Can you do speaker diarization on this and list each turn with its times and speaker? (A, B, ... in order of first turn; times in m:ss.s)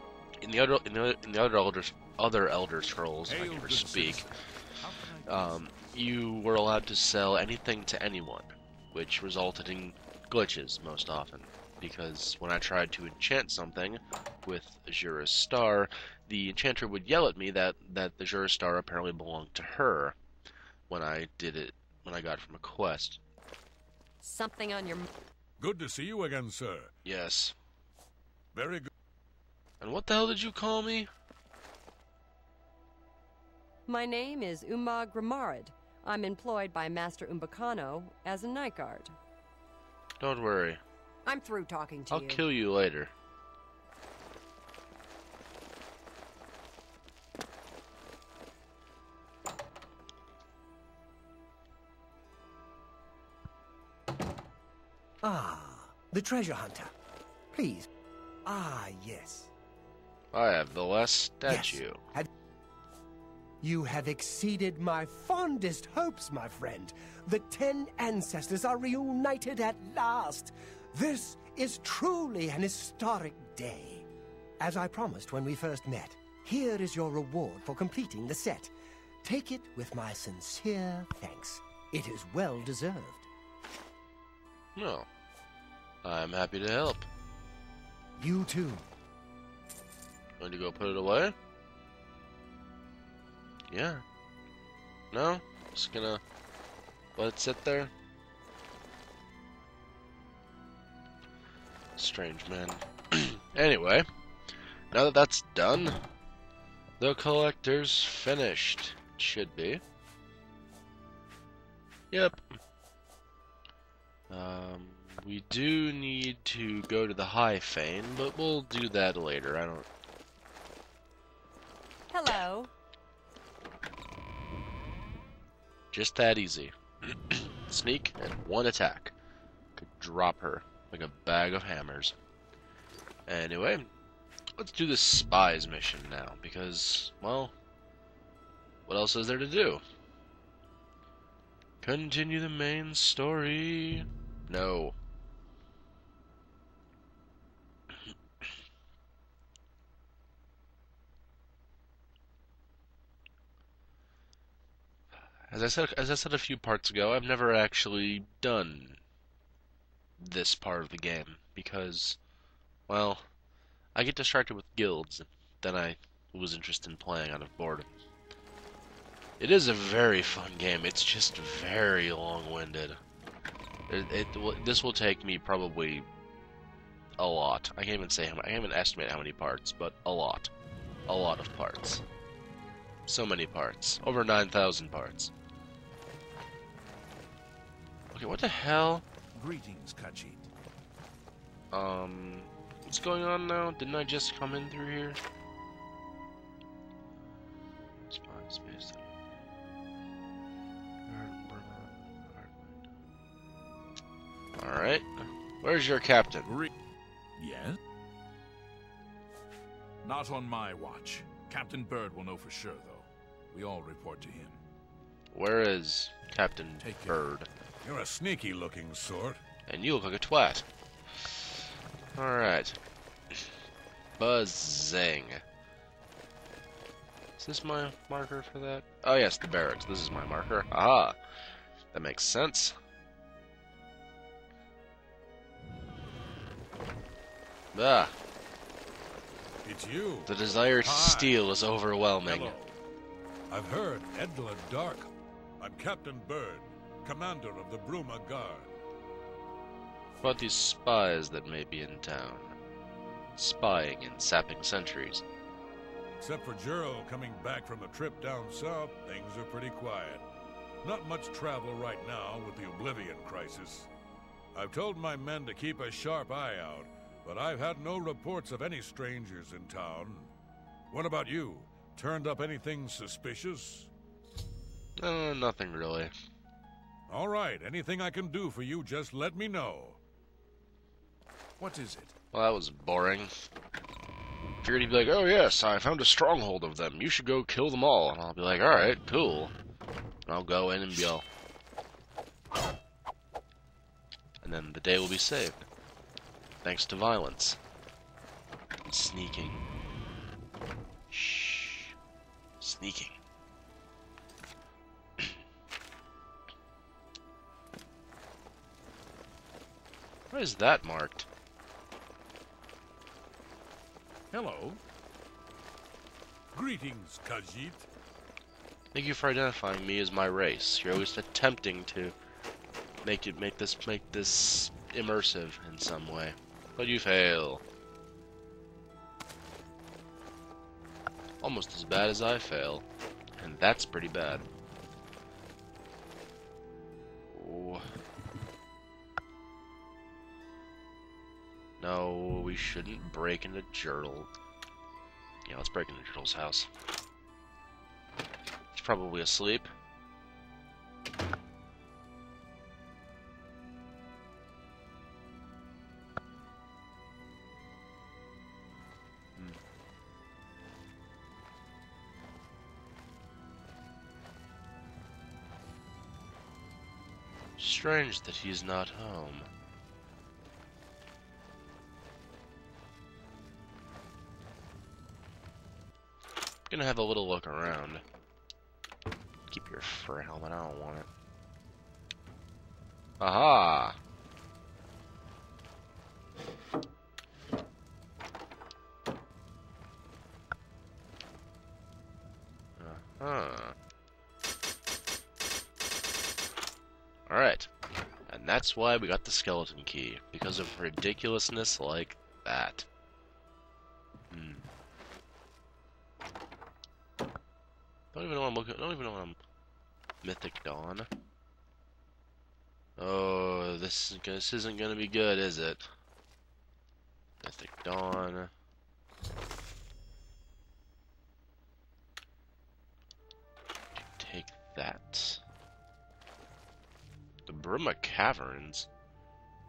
0:00.4-0:04.3 A
0:03.3-0:05.7 B
0:05.3-0:20.2 A
0:20.9-0:23.2 A
0:24.2-0:25.1 C
0:25.6-0:26.9 D
0:27.0-0:27.6 A
0:28.5-0:28.9 D
0:29.8-0:31.1 A
0:33.9-0:39.2 C
0:40.2-0:40.8 A
0:41.3-0:42.4 C
0:42.1-0:43.1 A
0:55.2-0:56.9 E
0:57.5-0:57.9 E
0:58.5-0:59.5 E
1:00.3-1:02.0 A
1:01.5-1:02.3 E
1:03.6-1:14.1 E
1:14.6-1:23.3 E
1:24.8-1:25.1 A
1:26.0-1:27.1 A
1:28.2-1:28.9 E
1:30.4-1:31.4 A
1:33.7-1:34.0 A
1:35.1-1:36.2 A
1:37.2-1:37.9 A
1:42.0-1:44.1 A
1:44.9-1:46.0 A
1:47.0-1:49.8 A
1:52.1-1:52.4 A
1:54.3-1:59.9 A
2:02.1-2:02.7 C
2:05.9-2:09.1 A
2:09.8-2:12.2 A
2:13.3-2:13.9 A
2:14.6-2:17.5 A
2:18.9-2:19.8 A
2:21.8-2:25.0 A
2:35.5-2:39.0 A
2:40.2-2:42.2 A
2:42.9-2:43.3 A
2:44.0-2:48.0 A
2:49.4-2:53.0 A
2:53.9-2:56.1 A
2:57.2-3:00.5 A
3:01.1-3:02.0 A
3:03.1-3:05.3 A
3:08.1-3:09.0 A
3:09.4-3:10.5 B
3:11.7-3:15.2 A
3:18.1-3:19.1 A
3:21.1-3:22.5 A
3:24.6-3:26.5 A
3:27.4-3:27.8 B
3:30.0-3:34.6 B
3:35.3-3:37.5 A
3:36.8-3:37.1 B
3:37.8-3:39.4 D
3:39.7-3:40.7 A
3:42.2-3:42.8 A
3:44.2-3:45.4 A
3:47.4-3:51.2 A
3:51.9-3:52.8 A
3:57.7-3:58.2 A
3:59.6-4:01.4 D
4:00.3-4:02.6 A
4:02.2-4:02.8 D
4:03.5-4:08.7 D
4:10.2-4:12.6 A
4:13.4-4:15.2 A
4:16.2-4:20.2 D
4:20.8-4:23.9 D
4:24.6-4:30.3 D
4:30.9-4:33.9 D
4:35.0-4:36.1 A
4:37.1-4:40.0 D
4:41.6-4:42.1 B
4:42.3-4:43.3 A
4:44.6-4:49.5 A
4:50.3-4:51.2 A
4:54.4-4:55.6 A
4:56.6-4:57.6 A
4:58.8-4:59.6 A
5:01.1-5:02.0 A
5:02.6-5:03.2 A
5:10.3-5:11.3 A
5:14.3-5:14.8 B
5:14.4-5:14.7 D
5:16.5-5:17.9 D
5:18.9-5:22.2 A
5:23.0-5:27.6 A
5:31.4-5:32.8 A
5:33.4-5:34.5 A
5:37.3-5:37.8 A
5:41.8-5:44.3 A
5:45.5-5:46.7 A
5:48.7-5:49.7 A
6:07.6-6:09.5 A
6:16.7-6:18.0 A
6:19.5-6:21.1 A
6:23.2-6:24.0 A
6:32.8-6:33.8 A
6:37.3-6:37.7 A
6:38.3-6:42.9 A
6:44.3-6:44.7 A
6:48.1-6:49.4 A
6:50.2-6:51.1 A
6:53.0-6:55.9 A
6:57.4-6:58.5 A
7:04.0-7:05.4 A
7:07.5-7:08.9 A